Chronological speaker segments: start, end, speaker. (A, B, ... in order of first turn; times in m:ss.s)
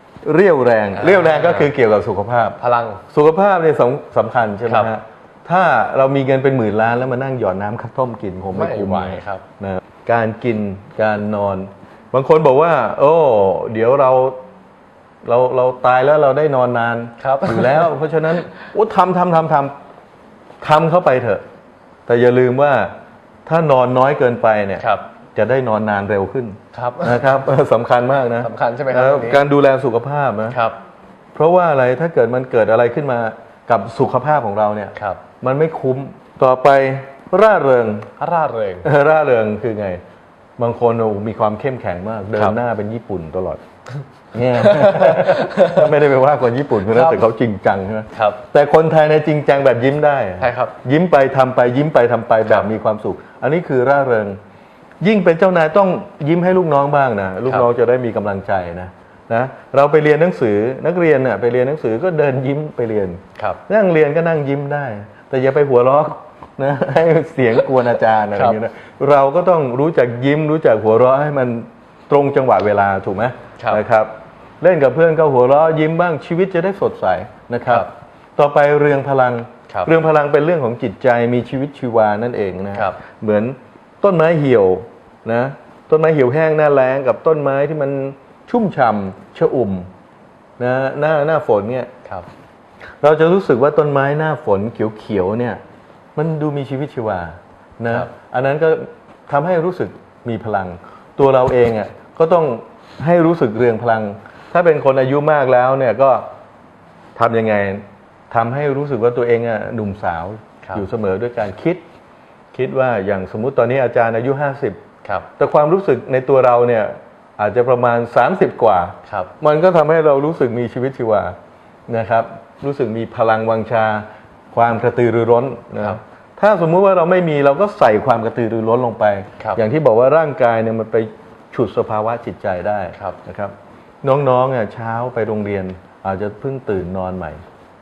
0:00.2-0:14.4 A
0:01.0-0:01.7 B
0:02.6-0:03.0 B
0:08.5-0:09.4 B
0:15.2-0:19.8 A
0:17.2-0:17.9 B
0:20.6-0:21.4 A
0:22.1-0:22.9 A
0:23.4-0:30.6 A
0:24.8-0:25.0 B
0:26.7-0:27.2 B
0:28.4-0:29.4 B
0:30.5-0:30.8 B
0:31.3-0:38.1 A
0:38.2-0:38.9 B
0:38.8-0:40.0 A
0:40.6-0:43.6 A
0:44.3-0:54.4 A
0:44.6-0:45.8 B
0:46.9-0:47.2 B
0:48.1-0:48.4 B
0:50.4-0:50.7 B
0:55.0-1:29.9 A
1:30.6-1:31.9 A
1:33.0-1:35.6 A
1:36.1-1:46.3 A
1:47.1-1:51.8 A
1:52.5-1:54.8 A
1:55.4-2:01.4 A
2:01.9-2:17.4 A